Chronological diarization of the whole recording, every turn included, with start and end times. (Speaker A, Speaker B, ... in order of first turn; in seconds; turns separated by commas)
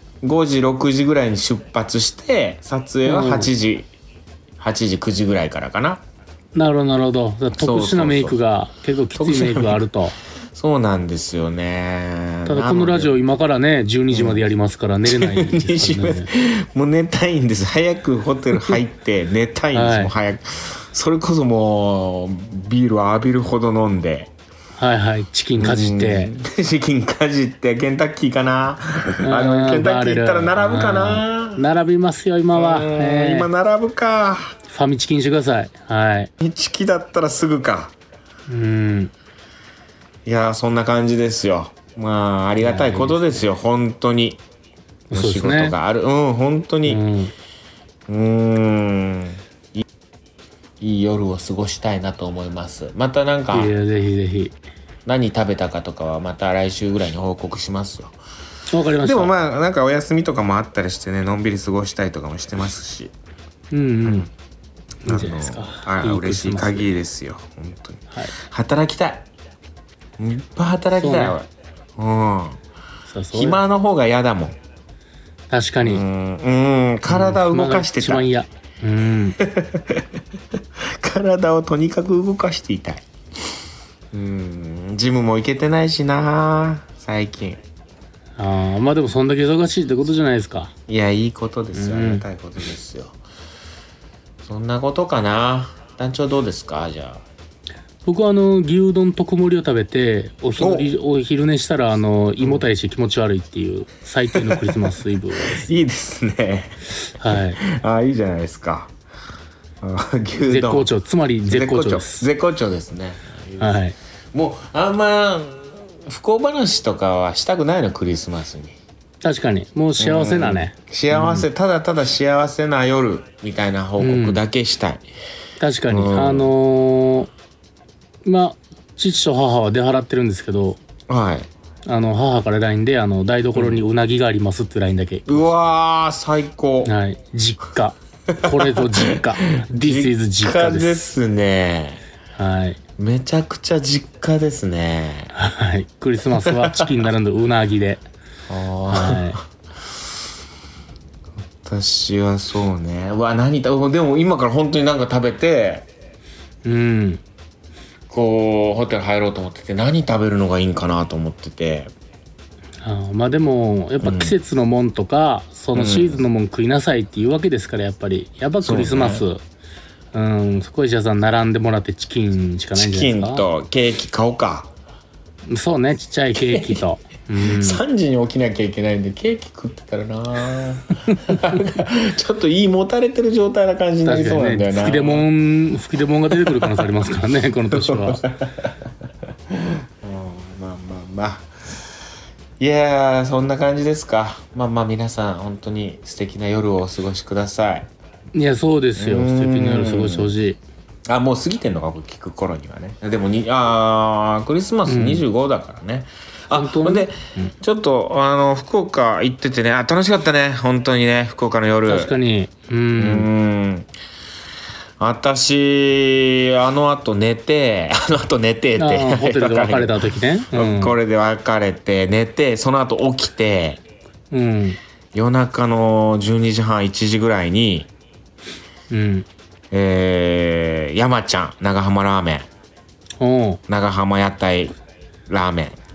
Speaker A: 0.2-3.9, Speaker B: 3.0-3.5, Speaker A: 4.6-6.0, Speaker B: 6.5-10.2, Speaker A: 7.5-8.4, Speaker A: 9.2-9.9, Speaker A: 10.5-13.2, Speaker B: 12.5-16.3, Speaker A: 14.1-14.5, Speaker A: 15.1-24.3, Speaker B: 19.7-20.1, Speaker B: 24.8-26.3, Speaker A: 25.6-31.6, Speaker B: 29.2-33.5, Speaker A: 32.5-34.6, Speaker B: 34.7-36.3, Speaker A: 36.4-37.9, Speaker B: 38.5-39.1, Speaker A: 40.2-44.4, Speaker B: 42.6-43.5, Speaker B: 45.1-45.8, Speaker A: 45.1-47.0, Speaker B: 46.9-47.3, Speaker A: 48.1-49.8, Speaker A: 50.8-53.7, Speaker B: 53.5-54.6, Speaker A: 55.1-58.1, Speaker B: 58.7-59.3, Speaker A: 59.0-63.1, Speaker B: 63.7-64.3, Speaker A: 64.0-64.3, Speaker B: 65.0-66.9, Speaker A: 65.1-69.3, Speaker A: 70.2-72.6, Speaker B: 71.0-71.4, Speaker B: 73.1-73.6, Speaker A: 73.3-74.6, Speaker B: 75.5-76.0, Speaker A: 75.8-78.3, Speaker B: 77.1-79.4, Speaker A: 79.4-80.1, Speaker A: 81.0-83.1, Speaker A: 84.1-87.6, Speaker B: 88.4-90.7, Speaker A: 90.9-93.2, Speaker B: 91.7-92.3, Speaker A: 94.4-97.2, Speaker B: 98.0-105.7, Speaker A: 100.6-100.9, Speaker A: 102.4-102.7, Speaker A: 104.3-104.8, Speaker A: 105.4-108.9, Speaker B: 107.2-107.6, Speaker A: 109.8-110.9, Speaker B: 110.4-112.3, Speaker A: 111.5-118.8, Speaker B: 113.6-114.0, Speaker B: 119.2-121.5, Speaker A: 120.0-125.1, Speaker B: 124.0-124.4, Speaker B: 125.6-127.3, Speaker A: 125.9-126.5, Speaker B: 128.2-130.8, Speaker A: 131.1-131.5, Speaker B: 131.9-135.5, Speaker A: 133.6-133.8, Speaker A: 135.3-136.9, Speaker B: 136.8-141.1, Speaker A: 138.3-142.0, Speaker B: 142.4-142.8, Speaker A: 143.0-145.3, Speaker B: 145.3-148.0, Speaker A: 146.3-146.9, Speaker A: 148.5-149.4, Speaker B: 148.9-149.4, Speaker A: 151.6-155.9, Speaker B: 156.7-157.2, Speaker A: 158.1-161.9, Speaker B: 162.8-169.4, Speaker A: 164.0-164.4, Speaker A: 165.7-166.3, Speaker A: 168.6-169.3, Speaker B: 170.1-173.5, Speaker A: 172.7-174.7, Speaker B: 175.5-177.8, Speaker A: 176.3-176.8, Speaker A: 177.4-185.3, Speaker B: 184.1-188.2, Speaker A: 186.3-187.1, Speaker A: 187.7-188.7, Speaker A: 190.0-191.5, Speaker A: 192.6-197.9, Speaker B: 198.3-200.6, Speaker A: 199.0-200.3, Speaker A: 201.1-212.1, Speaker B: 204.9-205.2, Speaker B: 206.5-207.6, Speaker B: 211.9-213.3, Speaker A: 213.0-213.9, Speaker A: 215.0-223.8, Speaker B: 218.8-221.0, Speaker B: 224.3-224.8, Speaker A: 225.1-227.9, Speaker B: 228.9-229.3, Speaker A: 229.7-232.5, Speaker B: 233.2-233.6, Speaker A: 233.7-234.8, Speaker A: 235.3-235.8